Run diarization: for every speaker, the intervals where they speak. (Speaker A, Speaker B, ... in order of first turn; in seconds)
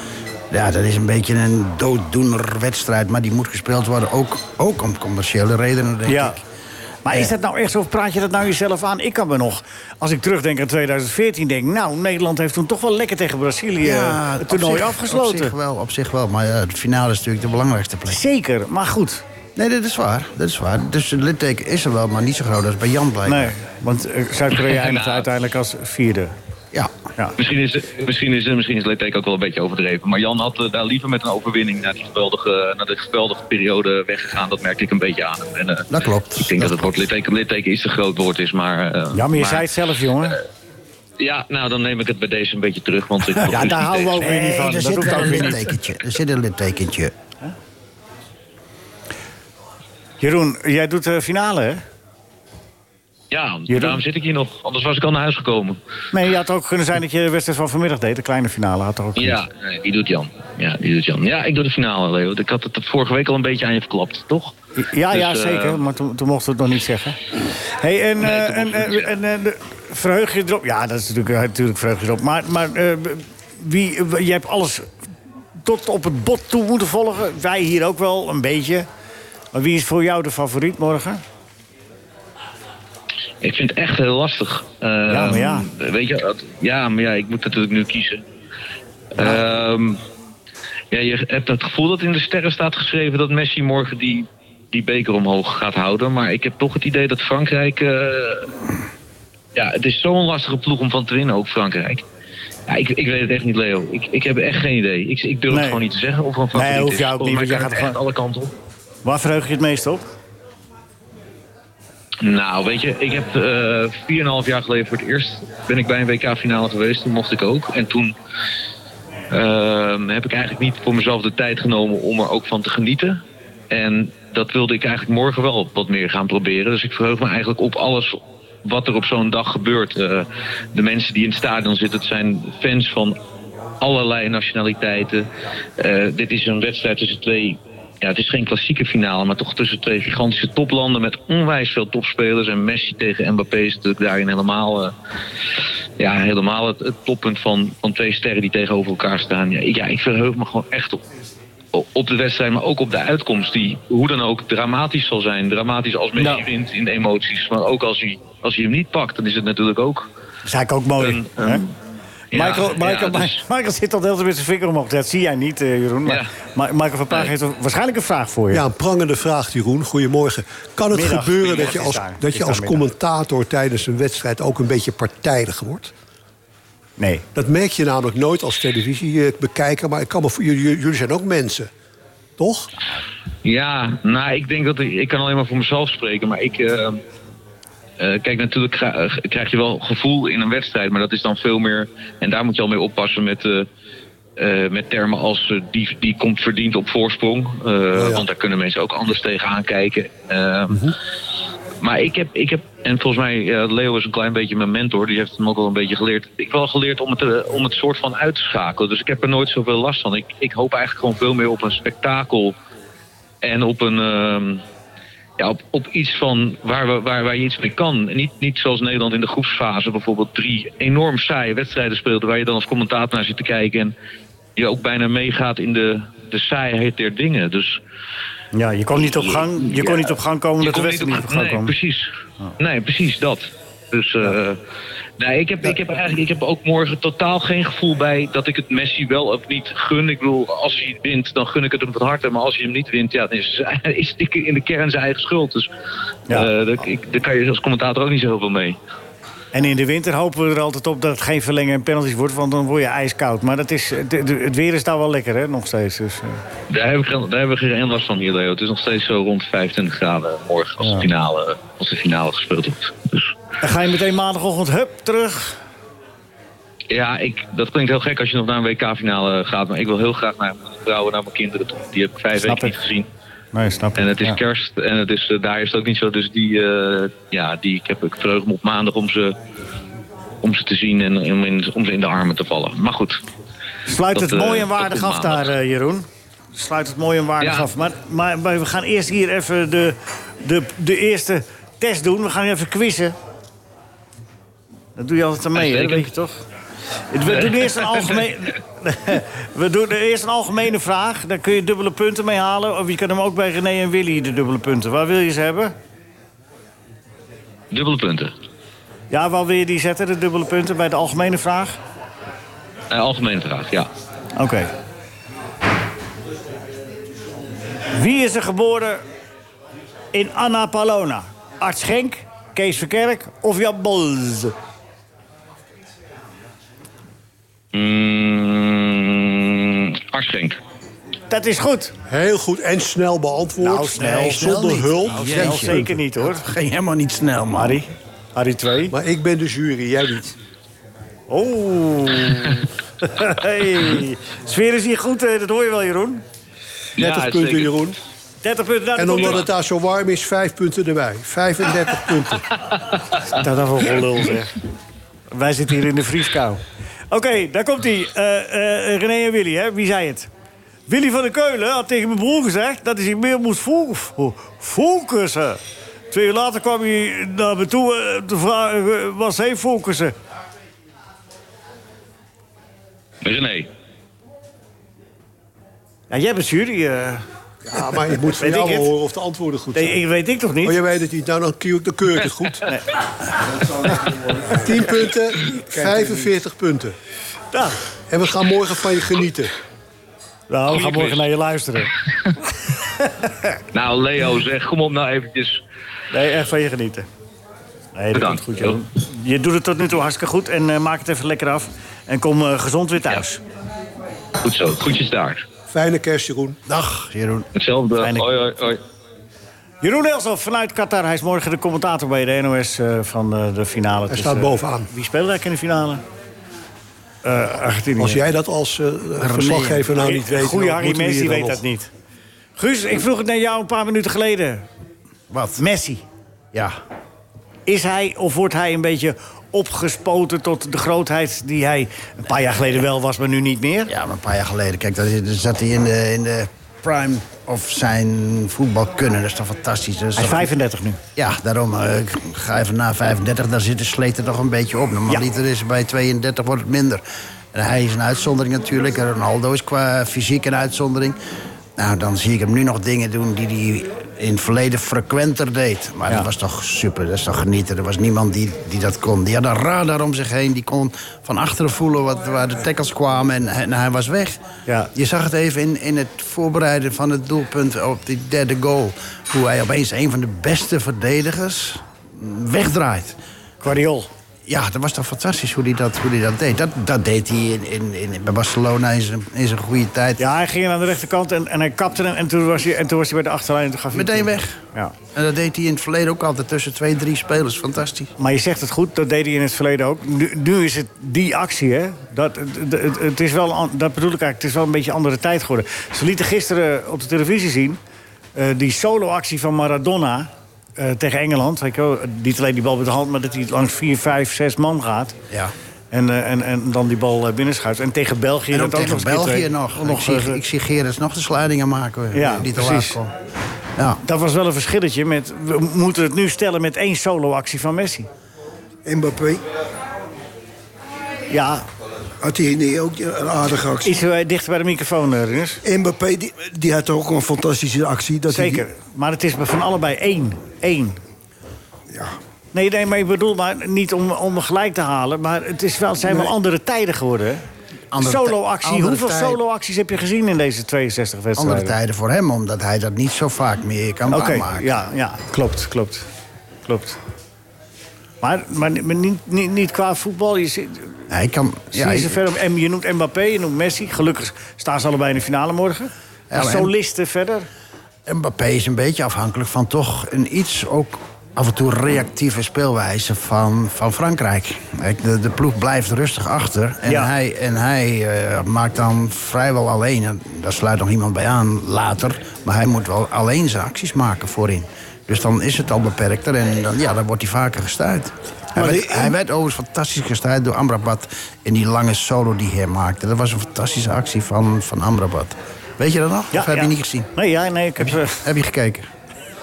Speaker A: 0.5-6.4, 13.8-18.2, 19.6-23.5, 35.9-36.9, 44.1-47.1, 334.0-337.8, 406.7-407.5, 419.2-419.9, 425.3-425.6, 433.9-440.5, 441.1-447.0, 447.5-451.2, 451.8-464.4, 464.9-473.2, 474.4-480.2, 483.9-484.6, 485.1-488.1, 508.5-513.1, 537.9-539.4, 541.4-544.7, 551.1-552.2, 556.3-556.7, 558.0-587.1, 587.8-588.9
Speaker B: 6.1-6.4, 7.0-15.5, 18.1-19.2, 23.2-26.3, 39.1-40.4, 43.4-45.7, 50.2-51.8, 53.7-54.0, 56.1-59.4, 64.8-67.2, 67.8-74.9, 75.6-78.9, 79.5-81.2, 85.1-85.7, 105.5-105.8, 106.5-108.0, 109.0-110.0, 156.2-156.5, 160.4-161.6, 162.3-168.6, 170.9-172.8, 177.0-177.2, 228.5-231.7, 249.5-256.4, 260.8-261.1, 263.6-265.6, 272.3-272.7, 273.5-274.4, 283.9-293.1, 294.9-296.4, 297.1-305.7, 309.1-311.8, 314.4-314.7, 317.9-319.0, 320.1-324.5, 331.3-331.9, 333.6-336.4, 337.5-338.9, 341.3-346.2, 348.4-349.5, 353.3-354.6, 355.3-360.3, 360.9-365.6, 366.1-370.1, 376.1-377.2, 378.4-378.9, 379.7-380.8, 383.9-384.4, 387.5-387.8, 390.5-391.9, 393.0-393.3, 396.1-397.1, 397.9-403.4, 408.0-408.3, 409.8-416.0, 417.2-418.2, 419.9-421.9, 422.6-424.6, 425.6-426.0, 427.7-433.9, 440.1-441.0, 473.6-474.1, 480.2-484.9, 488.2-497.8, 498.3-505.2, 505.9-510.4, 512.1-513.0, 514.0-518.1, 521.3-521.6, 523.8-525.6, 528.3-531.0, 532.5-537.4, 538.0-541.7, 544.1-546.0, 546.6-547.0, 548.2-551.0, 551.7-557.5, 566.9-567.1, 586.3-588.2
Speaker C: 24.6-25.2, 27.4-39.7, 41.2-44.2, 53.3-55.8, 59.1-64.5, 65.1-65.8, 68.2-69.1, 83.4-88.2, 89.1-90.0, 90.9-98.5, 99.5-102.0, 102.7-108.5, 112.2-118.1, 119.3-133.2, 133.8-135.3, 135.8-144.9, 146.0-151.0, 151.7-160.1, 161.0-161.7, 162.3-163.4, 183.4-187.0, 188.0-193.7, 194.4-200.9, 201.8-212.6, 213.4-214.6, 215.4-223.9, 224.6-227.8, 228.9-234.6, 235.2-245.7, 246.3-248.8, 256.7-263.3, 266.9-273.1, 273.9-279.4, 280.4-283.2, 284.1-285.5, 287.4-287.7, 295.5-296.1, 297.2-298.2, 307.7-308.3, 312.9-313.9, 327.7-330.6, 347.0-347.8, 373.2-373.7, 390.7-391.3, 393.7-395.6, 398.1-398.8, 404.4-405.4, 407.5-408.8
Speaker D: 168.5-175.9, 177.3-181.7, 182.4-182.7, 197.9-198.2, 332.1-335.9, 338.9-340.3, 347.0-348.0, 348.9-352.4, 377.7-380.0, 380.6-382.6, 384.0-386.9, 388.1-389.5, 405.7-406.6, 414.1-414.9, 418.0-421.6
Speaker E: 518.8-519.4, 522.2-524.0, 525.6-528.6, 531.9-532.1, 578.6-579.1